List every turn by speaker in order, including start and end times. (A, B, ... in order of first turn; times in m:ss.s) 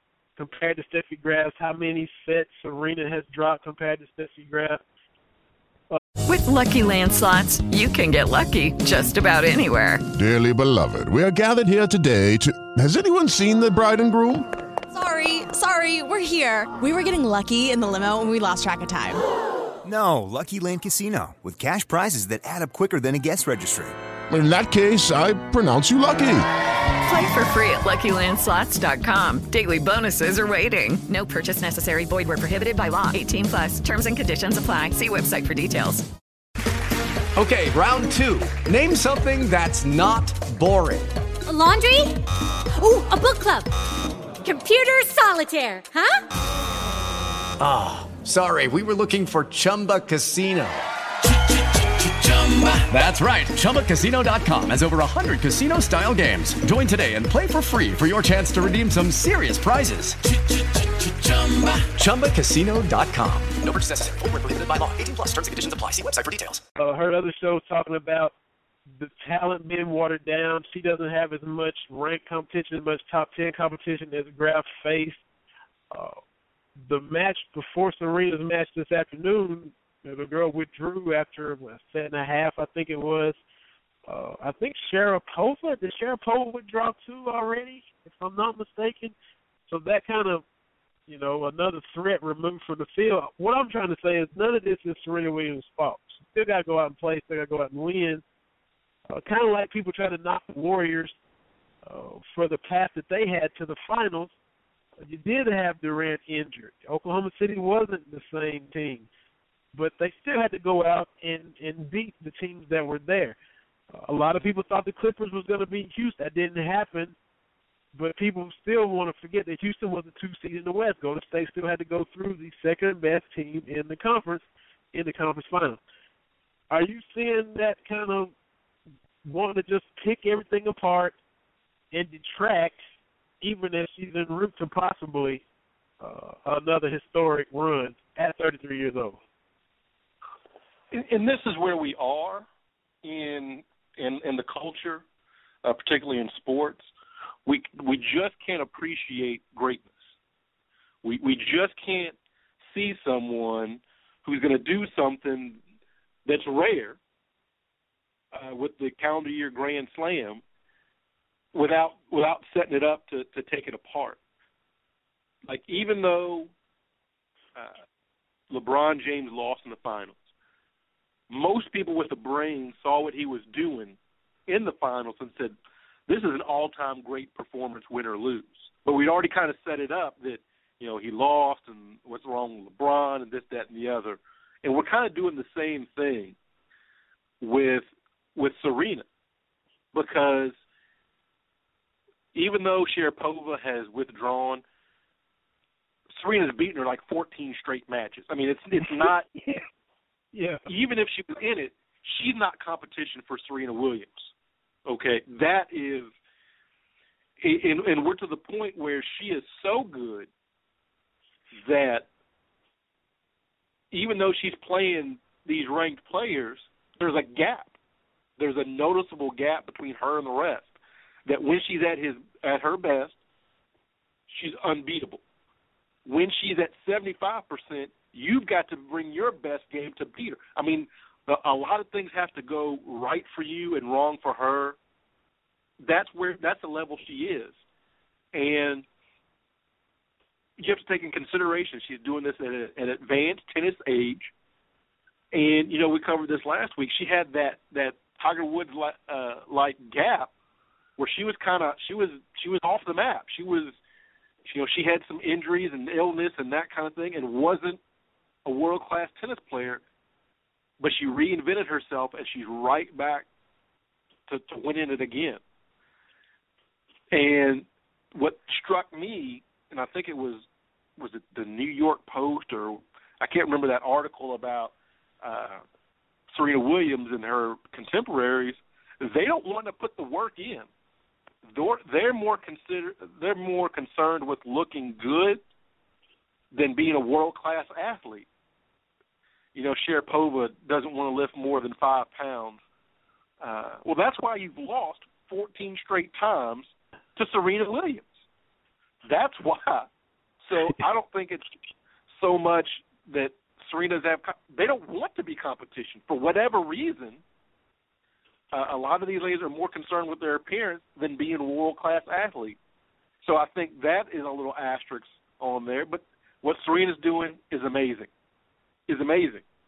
0:00.4-0:04.8 A
0:06.3-0:10.0 B
0:10.1-0:14.5 C
0:14.9-0:19.2 D
0:19.9-0:23.9 E
0:24.3-0:26.4 C
0:27.0-0:36.1 B
0:37.4-0:41.1 F
0:41.5-0:42.2 G
0:42.8-0:43.7 G
0:44.4-0:46.2 G
0:47.6-0:50.8 F
0:52.3-1:00.2 F
1:01.2-1:03.5 F
1:03.6-1:06.6 H
1:06.8-1:08.3 A
1:08.9-1:15.2 A
1:15.9-1:16.2 A
1:16.8-1:23.4 A
1:24.1-1:29.2 A
1:29.7-1:30.4 A
1:31.1-1:38.2 A
1:39.1-1:41.2 A
1:41.8-1:44.3 A
1:45.0-1:49.1 A
1:49.7-1:53.4 A
1:53.9-1:57.2 A
1:58.0-2:05.8 A
2:06.7-2:08.3 A
2:09.2-2:11.2 A
2:11.9-2:12.8 A
2:13.4-2:15.4 A
2:16.0-2:19.2 A
2:20.9-2:22.5 I
2:23.0-2:25.0 I
2:25.6-2:26.9 I
2:27.5-2:30.1 I
2:31.0-2:35.6 I
2:36.3-2:37.0 I
2:38.3-2:40.4 I
2:41.5-2:44.2 I
2:45.5-2:46.5 I
2:48.5-2:50.2 I
2:51.3-2:54.0 I
2:54.5-2:55.6 I
2:56.1-3:06.4 I
3:07.4-3:09.0 I
3:09.9-3:10.6 I
3:12.3-3:14.6 I
3:16.2-3:19.3 I
3:18.8-3:19.6 A
3:20.3-3:20.6 A
3:20.7-3:24.3 I
3:24.9-3:26.1 I
3:27.4-3:30.3 I
3:31.6-3:32.1 I
3:33.9-3:37.7 I
3:38.4-3:40.8 I
3:41.3-3:43.2 I
3:44.3-3:45.2 I
3:46.0-3:54.8 I
3:55.8-3:57.6 I
3:58.3-3:58.8 I
4:00.6-4:04.3 I
4:05.3-4:10.3 I
4:11.0-4:13.8 I
4:14.4-4:17.8 I
4:18.4-4:19.8 I
4:20.8-4:23.2 I
4:24.3-4:25.4 I
4:27.1-4:30.4 I
4:31.0-4:35.6 I
4:36.3-4:40.7 I
4:41.5-4:45.4 I
4:46.5-4:48.3 I
4:49.6-4:52.6 I
4:53.4-4:58.1 I
4:59.0-4:59.9 I
5:00.4-5:01.5 I
5:02.1-5:07.2 I
5:08.5-5:12.6 I
5:13.2-5:18.1 I
5:18.9-5:19.4 I